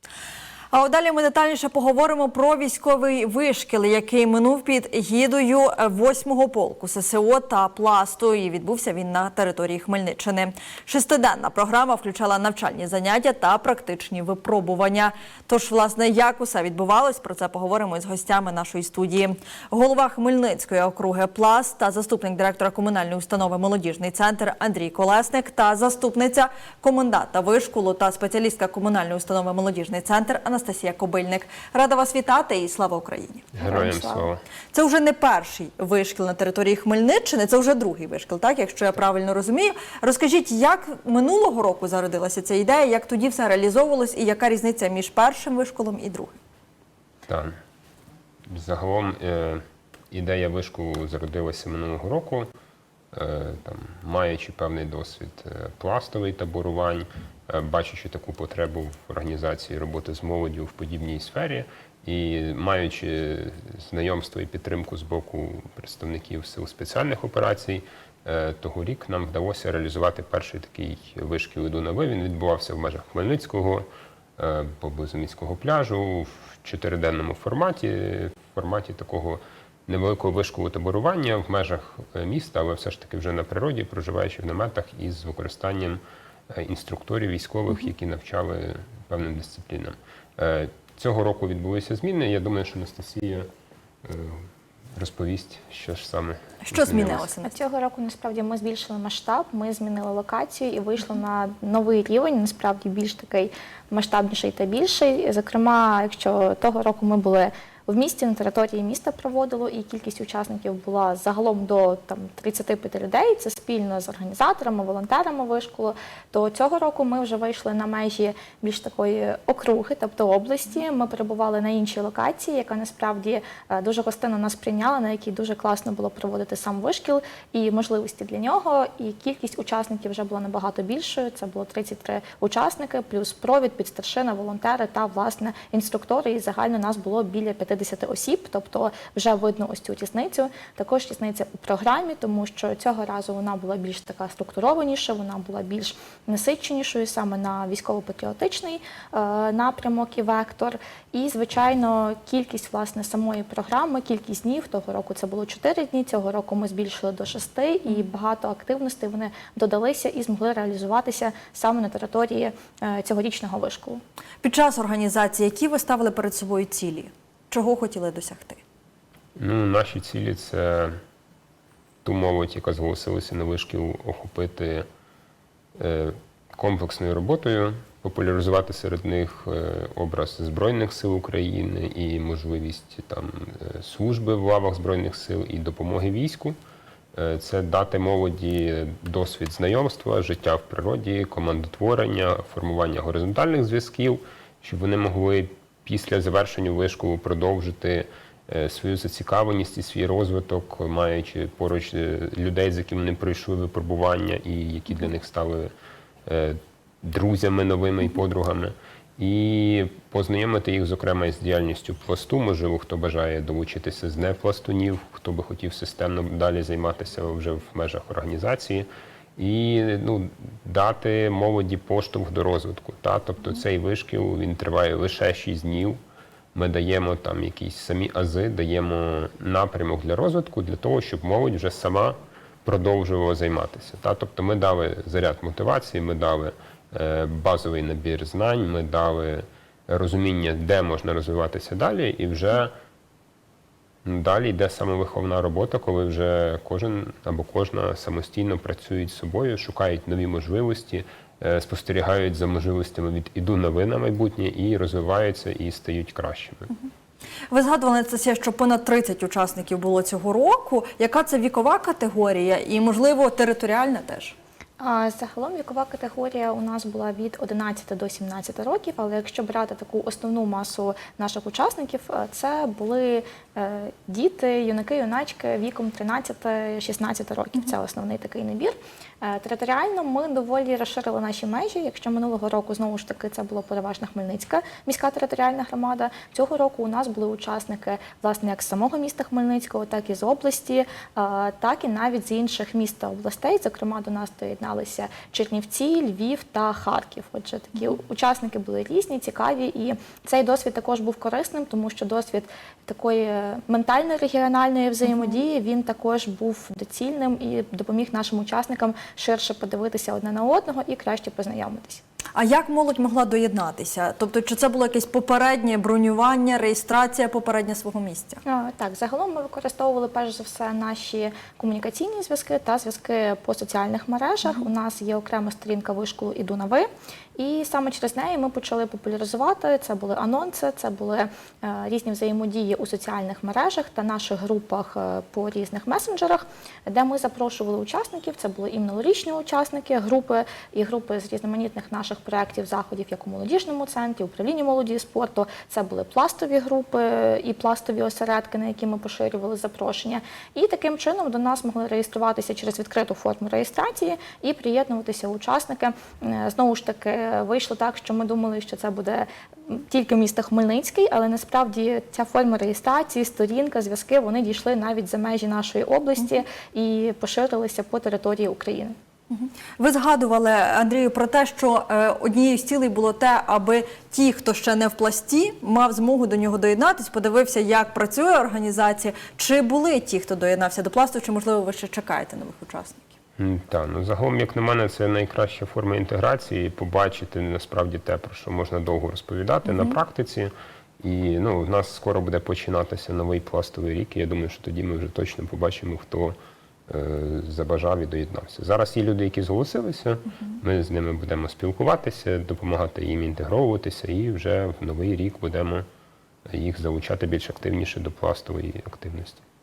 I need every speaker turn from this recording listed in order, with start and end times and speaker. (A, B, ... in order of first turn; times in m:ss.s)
0:00.7-0:33.5 A
0:33.5-0:34.4 B
0:33.6-0:34.3 C
0:34.7-0:46.4 A
0:47.3-0:47.6 B
0:48.5-0:52.5 B
0:53.1-1:33.5 B
1:34.0-1:37.3 B
1:36.6-1:37.6 A
1:37.4-2:44.0 C
2:44.4-2:48.6 A
2:49.4-2:51.0 B
2:52.0-2:54.9 B
2:55.8-3:06.6 B
3:07.1-3:25.7 B
3:26.2-3:46.0 B
3:46.5-4:02.7 B
4:04.0-4:16.7 B
4:17.5-4:24.3 A
4:24.8-5:12.0 C
5:12.3-5:18.4 A
5:18.4-6:08.9 C
6:09.3-6:23.1 A
6:23.4-6:36.4 B
6:36.9-6:45.8 B
6:46.5-6:49.4 B